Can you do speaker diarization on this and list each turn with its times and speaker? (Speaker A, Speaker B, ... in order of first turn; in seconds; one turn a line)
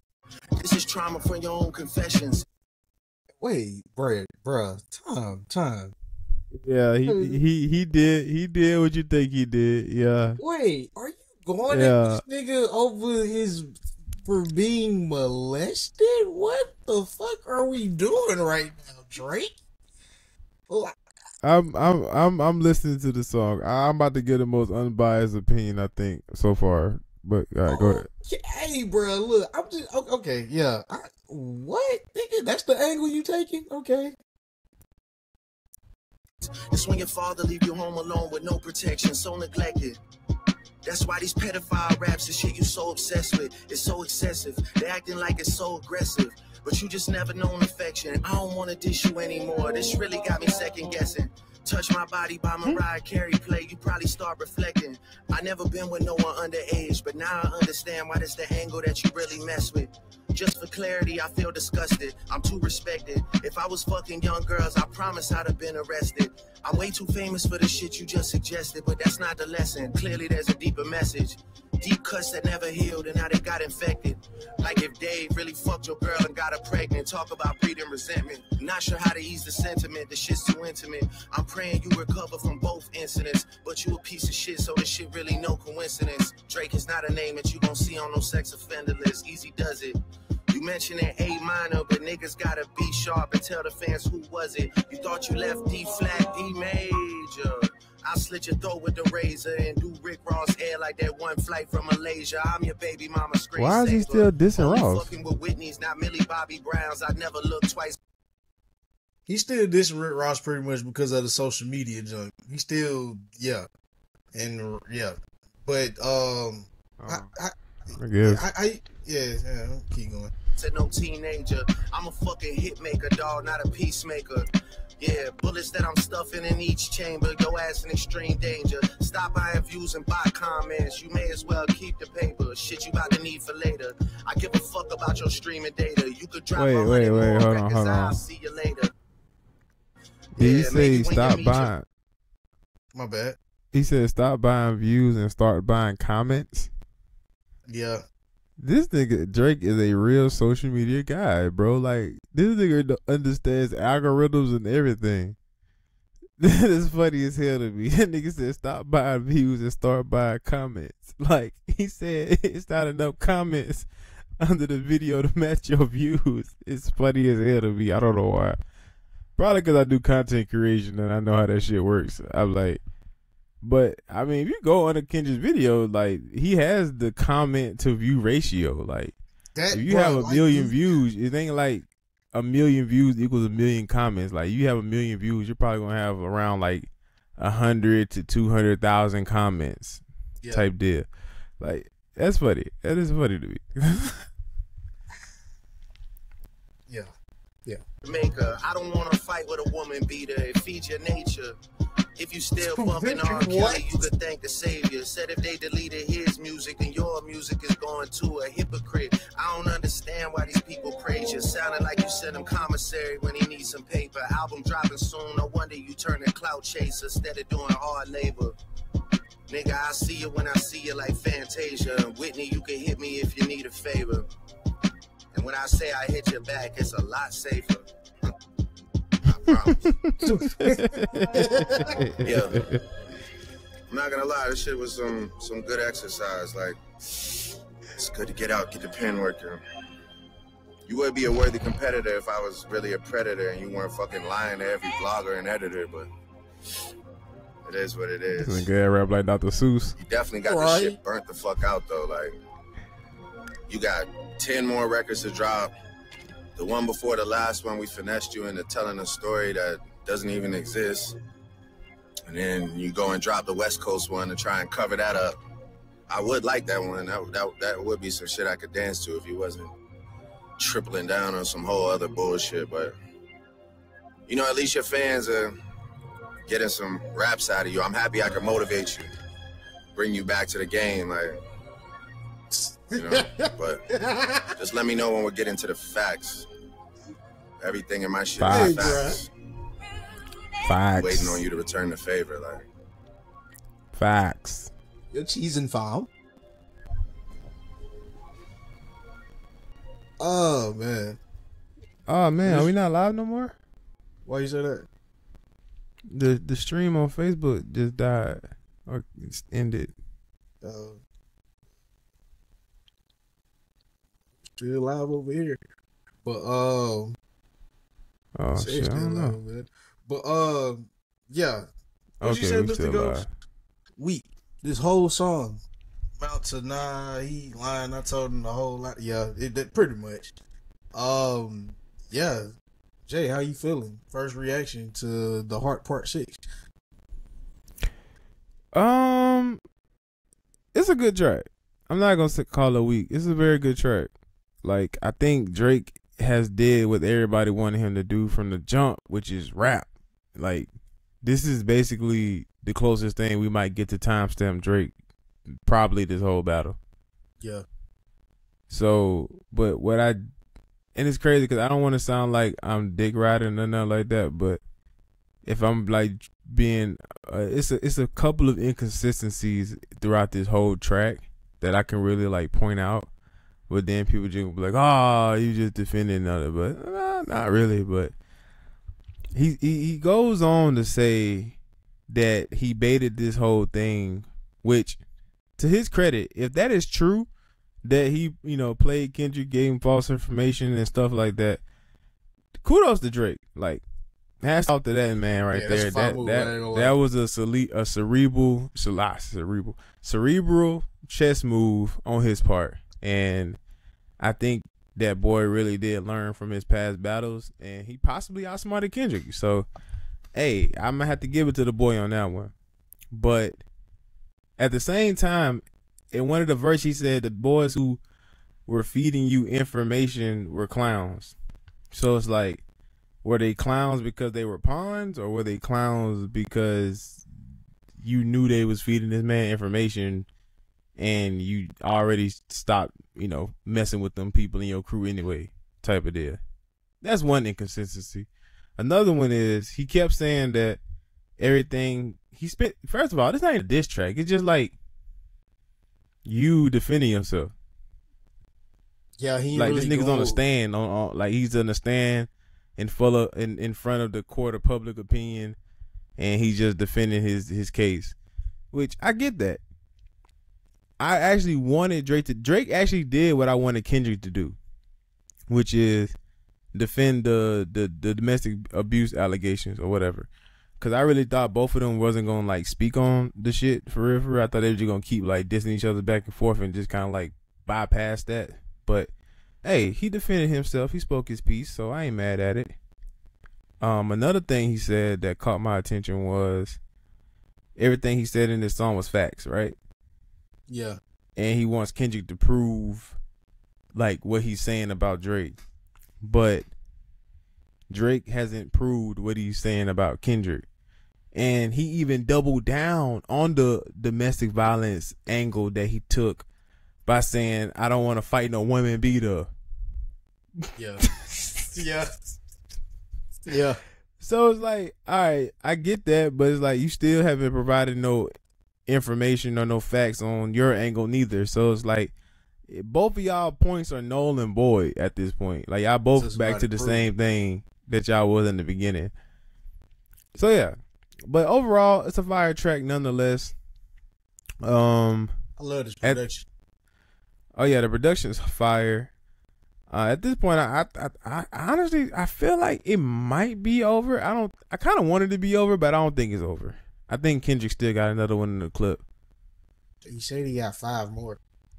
Speaker A: 0.6-2.4
Speaker B: 3.4-5.9
Speaker C: 6.5-10.4
Speaker B: 7.1-7.4
Speaker B: 10.4-13.7
Speaker C: 11.7-12.2
Speaker B: 14.2-19.5
Speaker B: 20.7-20.9
Speaker C: 21.4-28.1
Speaker B: 27.6-34.1
Speaker A: 36.7-40.0
Speaker A: 40.8-90.0
Speaker A: 90.5-108.0
Speaker C: 103.5-105.1
Speaker B: 109.3-113.7
Speaker B: 114.3-117.5
Speaker C: 117.0-117.3
Speaker C: 118.0-118.4
Speaker B: 118.2-120.3
Speaker A: 120.6-124.4
Speaker A: 125.0-138.9
Speaker C: 136.5-138.2
Speaker A: 140.4-141.7
Speaker C: 140.4-141.8
Speaker B: 142.9-143.4
Speaker C: 143.7-146.7
Speaker B: 147.7-148.0
Speaker C: 148.6-155.3
Speaker C: 156.4-163.9
Speaker C: 164.4-168.6
Speaker C: 169.4-172.8
Speaker C: 173.6-179.1
Speaker B: 179.5-180.7
Speaker C: 179.7-191.1
Speaker B: 190.4-190.7
Speaker C: 191.6-194.2
Speaker A: 198.1-201.5
Speaker A: 202.2-218.6
Speaker B: 202.6-204.0
Speaker A: 219.5-224.3
Speaker A: 225.3-227.8
Speaker A: 229.2-229.9
Speaker C: 229.5-232.8
Speaker B: 230.2-231.9
Speaker A: 232.2-232.6
Speaker A: 233.9-236.8
Speaker A: 237.9-239.6
Speaker A: 240.9-246.1
Speaker A: 247.6-248.7
Speaker C: 248.3-249.9
Speaker A: 250.0-252.3
Speaker B: 250.4-251.0
Speaker A: 253.7-255.7
Speaker A: 256.6-261.1
Speaker A: 262.3-265.4
Speaker A: 266.1-269.7
Speaker A: 270.6-272.9
Speaker A: 274.3-275.5
Speaker A: 276.5-279.1
Speaker A: 279.9-281.4
Speaker B: 282.5-284.5
Speaker A: 282.9-283.8
Speaker A: 284.6-286.4
Speaker A: 287.6-289.3
Speaker C: 288.4-289.0
Speaker B: 288.4-289.2
Speaker C: 290.6-291.4
Speaker A: 290.9-292.6
Speaker C: 293.9-294.7
Speaker B: 295.1-296.1
Speaker B: 300.2-301.2
Speaker C: 302.1-303.6
Speaker B: 302.4-302.7
Speaker B: 304.2-304.9
Speaker C: 306.1-309.9
Speaker B: 310.6-311.0
Speaker B: 314.6-315.6
Speaker B: 316.2-317.1
Speaker C: 318.4-319.4
Speaker B: 318.5-321.7
Speaker C: 322.2-323.3
Speaker B: 322.2-323.2
Speaker B: 324.0-325.6
Speaker B: 326.2-330.4
Speaker B: 330.9-332.5
Speaker B: 333.1-336.4
Speaker C: 338.7-339.6
Speaker C: 340.7-344.1
Speaker C: 344.6-350.7
Speaker C: 351.2-354.9
Speaker C: 355.6-356.8
Speaker B: 357.4-357.6
Speaker C: 358.7-360.2
Speaker C: 360.9-364.6
Speaker C: 365.4-373.1
Speaker C: 373.7-378.1
Speaker C: 379.3-381.6
Speaker C: 382.1-385.0
Speaker C: 385.6-387.3
Speaker C: 387.8-391.6
Speaker C: 392.6-393.8
Speaker C: 394.4-403.6
Speaker B: 395.5-396.9
Speaker C: 404.2-409.7
Speaker C: 410.4-412.5
Speaker C: 413.1-413.6
Speaker C: 414.6-418.0
Speaker C: 418.7-421.3
Speaker C: 421.9-422.6
Speaker C: 423.2-427.2
Speaker C: 428.0-430.3
Speaker C: 431.0-436.4
Speaker C: 437.0-440.8
Speaker C: 441.4-444.8
Speaker C: 446.2-447.5
Speaker B: 449.2-450.4
Speaker C: 449.6-455.6
Speaker C: 456.2-458.1
Speaker C: 458.7-459.6
Speaker C: 461.0-464.6
Speaker C: 465.5-466.1
Speaker C: 466.7-479.1
Speaker C: 479.6-482.7
Speaker C: 483.8-486.8
Speaker C: 487.8-489.7
Speaker B: 490.7-491.0
Speaker C: 491.4-493.2
Speaker C: 493.9-495.6
Speaker C: 496.2-496.6
Speaker C: 497.9-500.6
Speaker C: 501.3-506.4
Speaker C: 507.1-509.5
Speaker B: 510.8-511.1
Speaker C: 511.1-511.7
Speaker B: 511.7-512.1
Speaker B: 513.5-513.8
Speaker C: 514.2-518.3
Speaker C: 518.9-522.1
Speaker C: 522.7-529.1
Speaker B: 526.1-527.1
Speaker C: 530.3-530.7
Speaker C: 531.2-533.5
Speaker C: 534.6-535.3
Speaker B: 535.6-536.5
Speaker C: 537.6-539.1
Speaker C: 539.9-549.0
Speaker B: 550.0-551.4